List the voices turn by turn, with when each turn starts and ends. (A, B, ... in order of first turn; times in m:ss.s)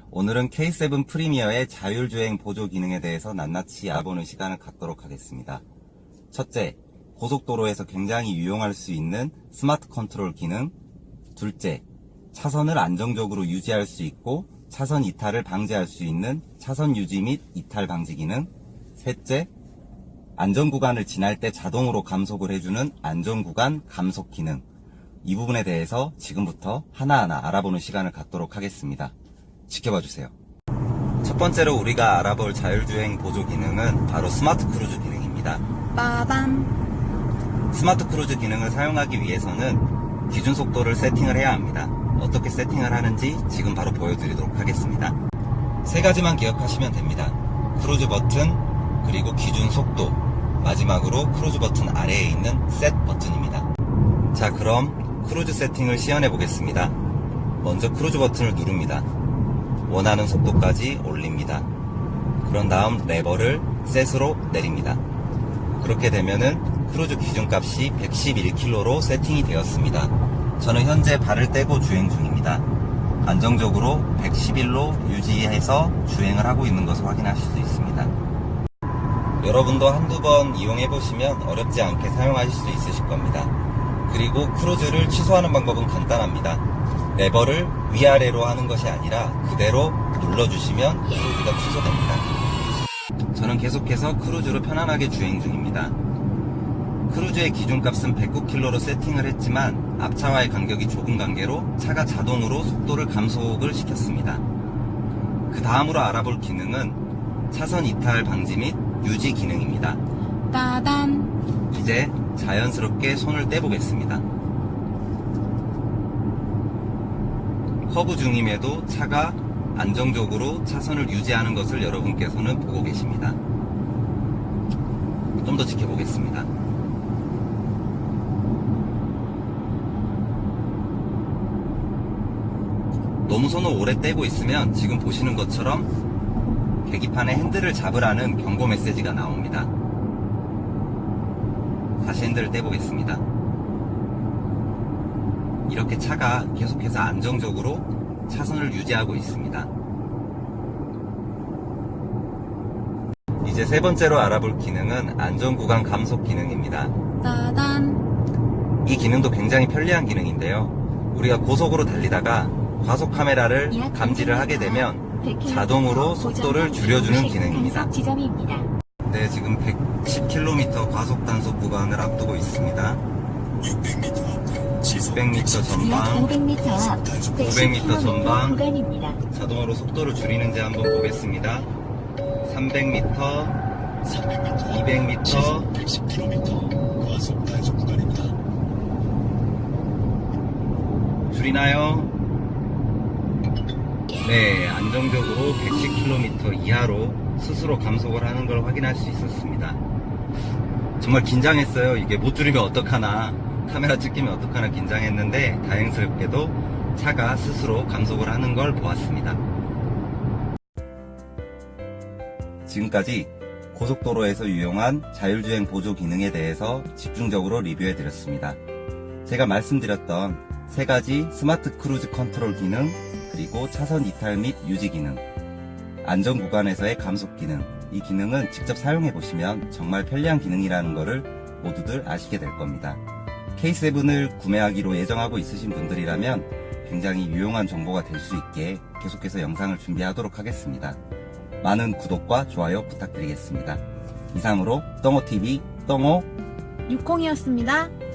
0:00.1-0:05.6 A
0:06.3-0:10.7 A
0:11.4-0:19.5 A
0:20.4-0:24.6 A
0:25.2-0:29.1 A
0:29.7-0:30.3 A
0:31.2-0:35.6 A
0:36.0-0:36.5 B
0:37.7-0:45.2 A
0:45.8-0:53.7 A
0:54.3-0:57.0 A
0:57.6-0:59.1 A
0:59.9-1:01.7 A
1:02.4-1:05.0 A
1:05.8-1:12.7 A
1:13.2-1:18.1 A
1:19.4-1:23.5 A
1:24.1-1:32.3 A
1:33.3-1:36.0 A
1:37.1-1:44.4 A
1:45.5-1:47.0 A
1:47.5-1:50.0 A
1:50.5-1:51.3 C
1:51.7-1:54.2 A
1:57.9-2:03.4 A
2:05.4-2:06.5 A
2:13.3-2:15.9 A
2:16.8-2:19.7 A
2:22.0-2:23.2 A
2:25.7-2:29.7 A
2:33.4-2:36.9 A
2:37.2-2:38.0 C
2:37.3-2:37.8 B
2:38.8-2:47.9 A
2:43.7-2:48.7 B
2:49.1-2:53.0 A
2:53.6-2:55.9 D
2:55.0-2:56.3 A
2:55.8-2:59.2 B
2:56.6-2:57.7 D
2:57.4-2:58.6 A
2:59.3-3:01.7 A
3:02.4-3:03.6 A
3:04.1-3:04.8 D
3:04.6-3:05.7 A
3:05.7-3:08.4 D
3:11.3-3:12.1 A
3:14.2-3:19.8 A
3:21.0-3:29.4 A
3:32.6-3:38.6 A
3:39.2-3:45.2 A
3:46.0-3:53.0 A
3:53.6-4:01.0 A
4:01.6-4:06.3 A
4:06.9-4:07.9 C